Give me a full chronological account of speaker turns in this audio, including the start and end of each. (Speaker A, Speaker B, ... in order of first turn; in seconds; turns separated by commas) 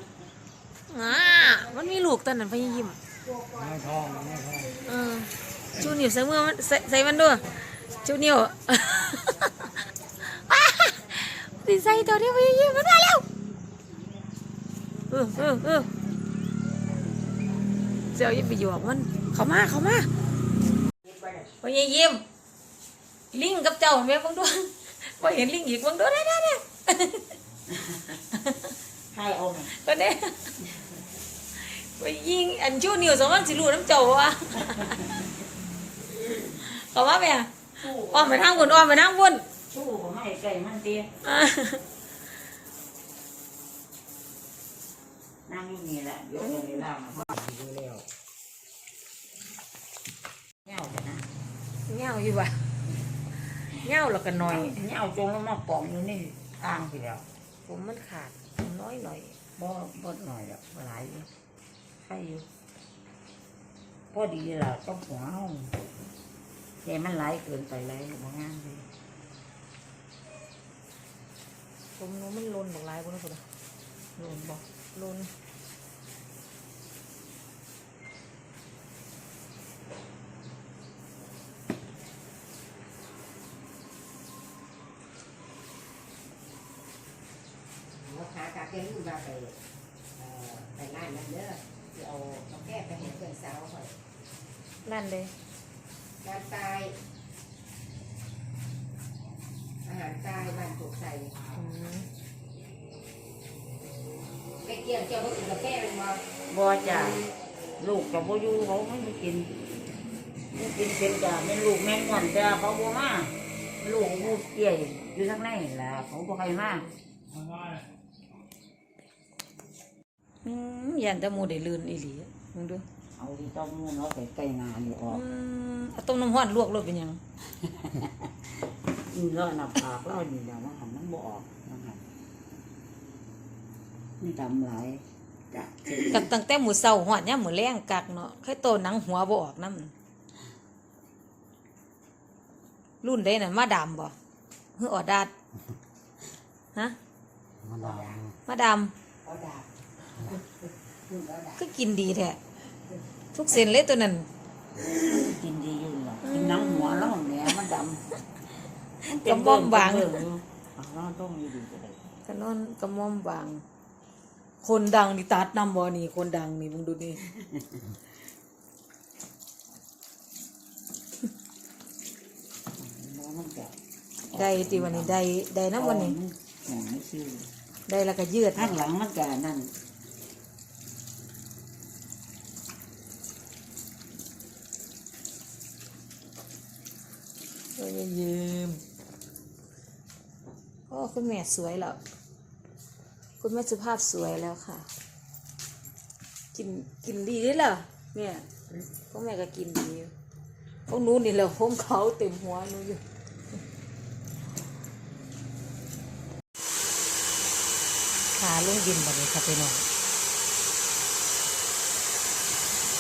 Speaker A: 0.9-3.0, Speaker B: 1.2-1.7, Speaker B: 3.3-4.7, Speaker C: 3.6-4.8, Speaker A: 4.8-9.7, Speaker B: 7.6-7.9, Speaker A: 10.3-13.2, Speaker A: 15.1-15.9, Speaker B: 15.4-15.8, Speaker A: 18.1-20.1, Speaker B: 21.0-21.5, Speaker A: 21.6-22.2, Speaker A: 23.3-27.3, Speaker D: 27.7-28.2, Speaker A: 28.3-28.7, Speaker D: 29.1-29.7, Speaker A: 29.7-30.5, Speaker A: 31.6-35.2, Speaker A: 36.4-39.5, Speaker D: 37.8-38.9, Speaker D: 39.7-41.1, Speaker A: 41.2-41.8, Speaker D: 45.5-47.3, Speaker B: 47.1-48.0, Speaker D: 50.6-51.3, Speaker A: 51.9-52.7, Speaker A: 53.6-54.8, Speaker D: 54.4-57.3, Speaker A: 57.7-59.4, Speaker D: 59.6-61.3, Speaker D: 62.0-62.5, Speaker D: 64.1-65.7, Speaker D: 66.8-68.9, Speaker A: 72.0-73.4, Speaker A: 74.2-75.3, Speaker B: 88.0-89.6, Speaker B: 90.2-94.0, Speaker A: 94.8-95.3, Speaker B: 96.2-97.0, Speaker B: 99.8-101.4, Speaker A: 101.5-102.1, Speaker B: 104.6-106.3, Speaker D: 106.5-107.2, Speaker B: 106.9-107.2, Speaker D: 107.8-109.5, Speaker D: 110.5-116.9, Speaker B: 114.0-114.4, Speaker C: 117.3-117.9, Speaker A: 120.4-122.8, Speaker D: 123.2-125.2, Speaker A: 125.1-127.2, Speaker D: 127.7-128.1, Speaker D: 129.1-132.0, Speaker D: 134.2-136.3, Speaker A: 136.1-139.9, Speaker A: 143.0-144.2, Speaker A: 144.8-145.3, Speaker C: 147.6-148.4, Speaker B: 147.8-148.2, Speaker A: 148.5-148.9, Speaker B: 149.2-151.6, Speaker A: 151.6-152.4, Speaker A: 153.3-154.3, Speaker D: 154.8-158.0, Speaker A: 156.2-157.1, Speaker D: 159.0-162.0, Speaker A: 159.1-160.2, Speaker A: 162.3-163.6, Speaker A: 164.6-167.2, Speaker D: 172.8-173.8, Speaker D: 174.3-175.2, Speaker A: 174.3-176.2, Speaker D: 175.8-177.5, Speaker A: 177.9-178.8, Speaker D: 178.6-179.7, Speaker A: 187.8-188.8, Speaker A: 190.9-192.0, Speaker A: 193.4-194.9, Speaker A: 196.5-198.4, Speaker A: 199.1-200.1, Speaker A: 200.9-203.0, Speaker A: 208.3-209.9